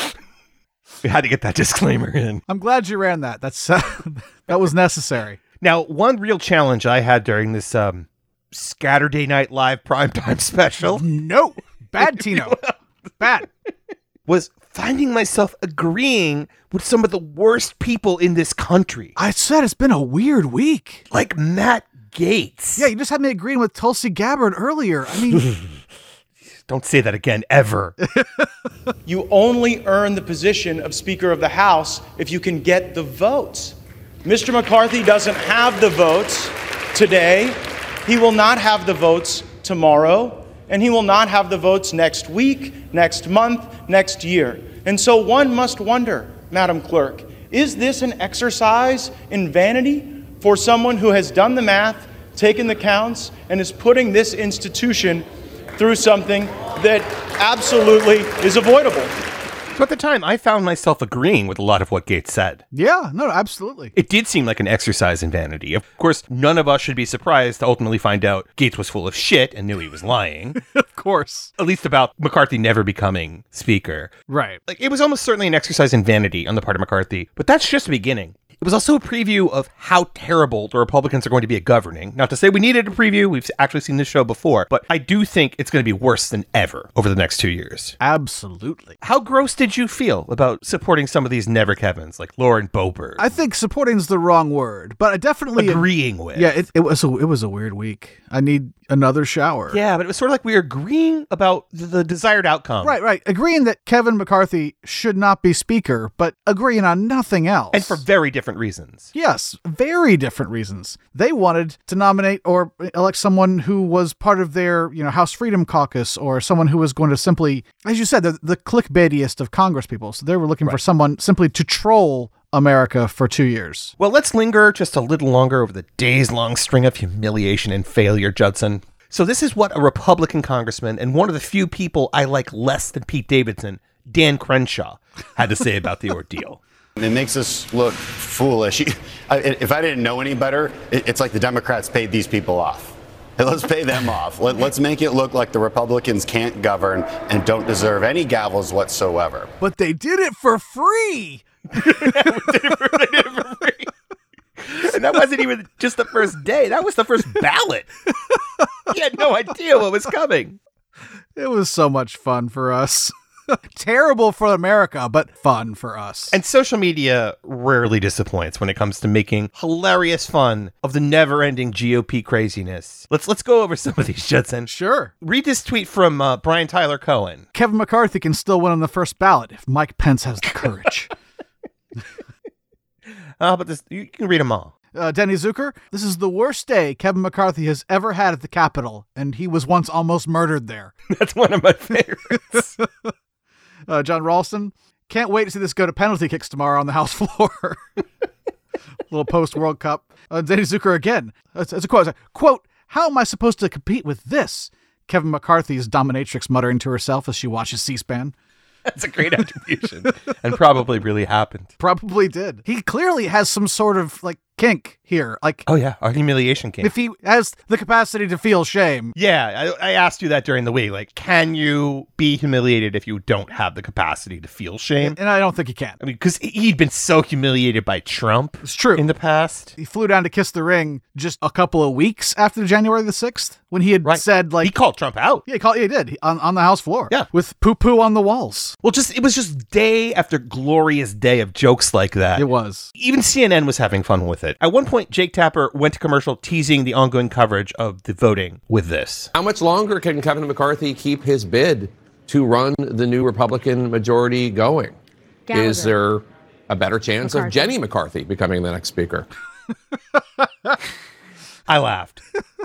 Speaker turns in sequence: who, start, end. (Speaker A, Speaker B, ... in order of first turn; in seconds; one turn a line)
Speaker A: 1.0-2.4
Speaker B: 2.5-5.4
Speaker A: 5.6-11.1
Speaker B: 10.9-12.6
Speaker A: 12.0-12.7
Speaker B: 13.2-13.5
Speaker A: 14.3-19.1
Speaker B: 19.2-21.0
Speaker A: 21.1-22.9
Speaker B: 22.8-25.5
Speaker A: 26.7-28.0
Speaker B: 28.0-28.5
Speaker C: 29.1-59.1
Speaker A: 59.8-62.6
Speaker B: 62.7-63.9
Speaker A: 64.0-70.6
Speaker B: 70.7-71.5
Speaker A: 71.6-74.1
Speaker B: 74.3-74.6
Speaker A: 74.7-88.0
Speaker B: 88.0-89.0
Speaker A: 89.0-93.3
Speaker B: 93.2-99.8
Speaker A: 95.6-96.5
Speaker A: 99.7-103.0
Speaker B: 102.8-108.0
Speaker A: 107.7-109.1
Speaker B: 109.1-123.9
Speaker A: 124.0-136.6
Speaker D: 137.0-149.5
Speaker B: 149.6-151.5
Speaker A: 151.7-153.9
Speaker A: 154.6-157.9
Speaker A: 158.9-160.6
Speaker B: 161.4-166.4
Speaker A: 166.3-174.7
Speaker B: 174.7-175.1
Speaker A: 175.2-177.4
Speaker B: 177.5-181.1
Speaker A: 183.4-184.7
Speaker B: 184.9-190.9
Speaker A: 191.1-192.7
Speaker B: 192.5-193.1
Speaker B: 193.9-197.8
Speaker B: 199.1-208.3
Speaker A: 208.9-211.7
Speaker B: 211.8-215.7
Speaker A: 215.7-216.9
Speaker B: 216.8-219.1
Speaker A: 219.2-225.2
Speaker B: 225.0-226.0
Speaker A: 226.0-229.7
Speaker B: 228.6-229.0
Speaker B: 229.8-234.7
Speaker A: 234.1-235.4
Speaker B: 235.5-238.8
Speaker A: 238.8-249.3
Speaker B: 242.4-242.9
Speaker E: 249.3-254.9
Speaker E: 255.5-259.3
Speaker A: 261.7-262.2